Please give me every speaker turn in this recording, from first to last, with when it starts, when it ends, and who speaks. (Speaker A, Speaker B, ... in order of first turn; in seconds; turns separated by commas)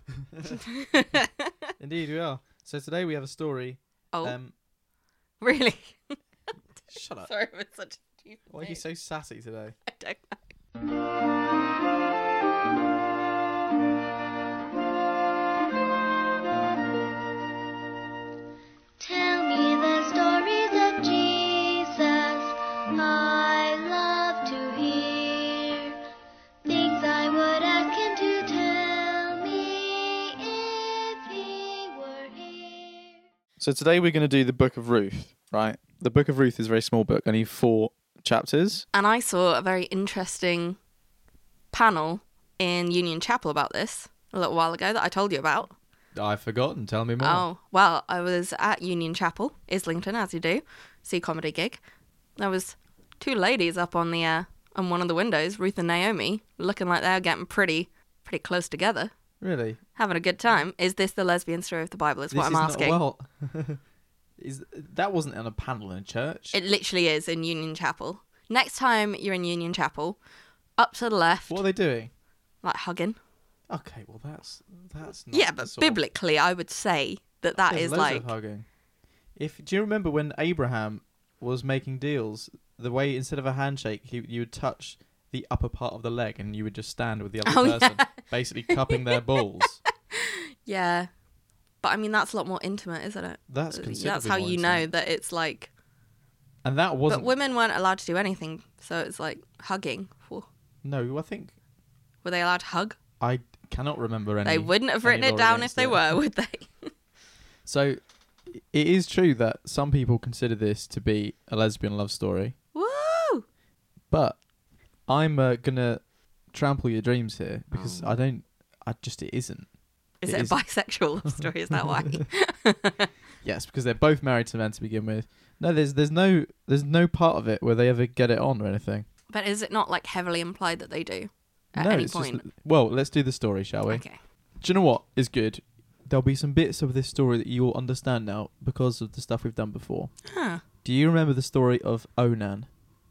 Speaker A: 0.5-1.4, Speaker B: 1.8-4.5, Speaker A: 5.4-6.2, Speaker B: 6.9-7.3, Speaker A: 7.2-8.8, Speaker B: 8.5-9.8, Speaker A: 9.9-10.4, Speaker C: 19.0-25.9, Speaker C: 26.6-33.1, Speaker B: 33.6-38.9, Speaker A: 38.9-40.8, Speaker A: 41.7-45.7, Speaker B: 46.1-47.5, Speaker A: 47.2-51.8, Speaker A: 52.4-59.1, Speaker B: 59.4-59.8, Speaker A: 59.9-63.0, Speaker B: 62.3-63.8, Speaker B: 64.4-66.5, Speaker A: 66.5-70.2, Speaker A: 70.8-71.6, Speaker B: 71.5-72.1, Speaker A: 72.6-73.2, Speaker B: 73.7-76.0, Speaker A: 75.3-78.3, Speaker B: 77.6-78.7, Speaker B: 79.3-89.8, Speaker A: 87.4-88.2, Speaker A: 90.1-91.1, Speaker A: 91.8-95.7, Speaker B: 93.5-94.8, Speaker B: 96.6-97.3, Speaker A: 97.1-100.5, Speaker B: 100.8-101.5, Speaker A: 102.2-103.0, Speaker B: 103.2-106.1, Speaker A: 104.4-106.9, Speaker B: 107.7-112.5, Speaker A: 112.7-113.4, Speaker B: 114.1-114.4, Speaker B: 115.0-119.7, Speaker A: 117.7-118.2, Speaker A: 120.2-123.1, Speaker B: 120.2-120.6, Speaker B: 121.2-121.9, Speaker B: 123.4-129.1, Speaker A: 129.3-132.4, Speaker B: 131.7-134.0, Speaker A: 133.9-134.2, Speaker B: 134.6-140.1, Speaker A: 140.3-140.6, Speaker B: 140.8-142.7